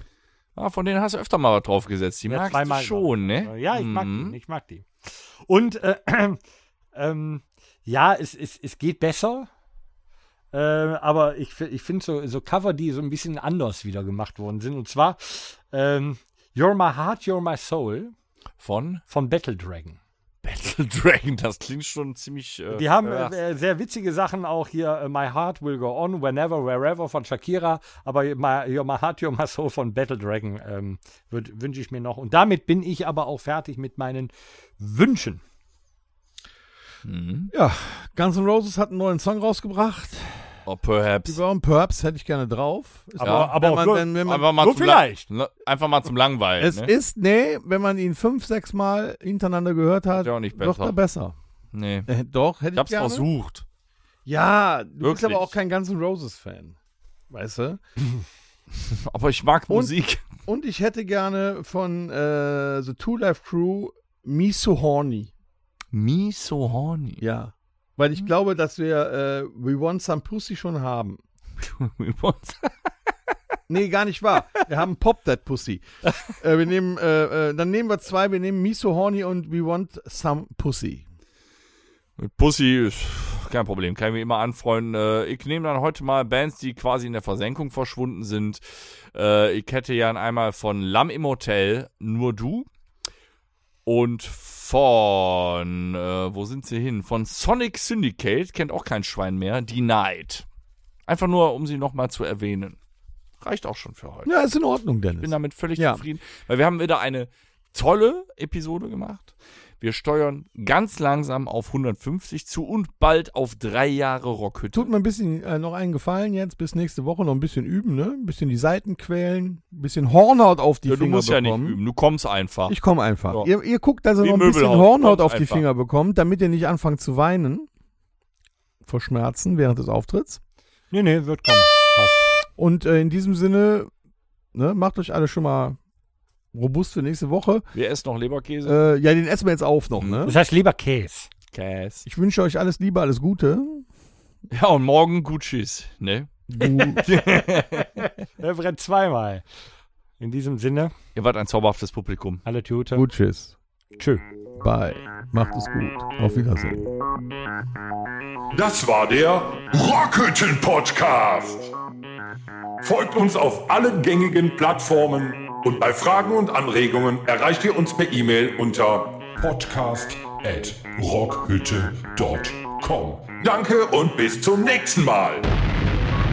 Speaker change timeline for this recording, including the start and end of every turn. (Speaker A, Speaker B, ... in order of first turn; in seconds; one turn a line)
Speaker A: 0.6-4.3
Speaker B: 2.3-6.4
Speaker B: 7.0-9.5
Speaker B: 10.5-18.1
Speaker A: 18.6-19.0
Speaker B: 19.1-20.0
Speaker A: 20.4-23.4
Speaker B: 22.7-35.4
Speaker A: 37.0-37.5
Speaker C: 37.5-40.6
Speaker A: 40.7-41.4
Speaker C: 41.3-44.5
Speaker B: 43.2-45.3
Speaker A: 43.2-43.6
Speaker A: 44.1-46.9
Speaker C: 46.6-51.4
Speaker A: 50.2-51.0
Speaker A: 51.7-52.1
Speaker C: 52.1-53.3
Speaker A: 52.8-53.6
Speaker C: 54.2-56.8
Speaker A: 55.0-55.5
Speaker C: 57.3-57.8
Speaker A: 58.8-60.2
Speaker C: 60.5-65.3
Speaker A: 65.9-67.2
Speaker C: 67.2-71.2
Speaker A: 71.6-72.7
Speaker C: 73.7-81.0
Speaker A: 82.2-92.7
Speaker A: 93.8-100.5
Speaker A: 101.1-102.8
Speaker A: 103.4-104.3
Speaker C: 104.3-106.0
Speaker A: 105.2-114.9
Speaker C: 114.7-121.8
Speaker A: 120.9-123.5
Speaker C: 122.7-127.7
Speaker A: 124.2-125.6
Speaker C: 128.8-130.4
Speaker B: 130.9-132.3
Speaker C: 132.6-133.9
Speaker C: 134.5-135.8
Speaker C: 136.5-137.7
Speaker A: 137.7-138.8
Speaker C: 138.6-140.4
Speaker B: 140.2-141.3
Speaker A: 141.5-142.1
Speaker C: 142.1-143.8
Speaker A: 144.5-148.1
Speaker C: 146.5-147.2
Speaker B: 148.0-149.4
Speaker B: 150.2-150.9
Speaker A: 151.2-152.4
Speaker B: 152.4-153.1
Speaker C: 152.9-153.6
Speaker B: 154.0-154.2
Speaker C: 154.6-156.9
Speaker D: 158.5-161.7
Speaker D: 162.8-175.5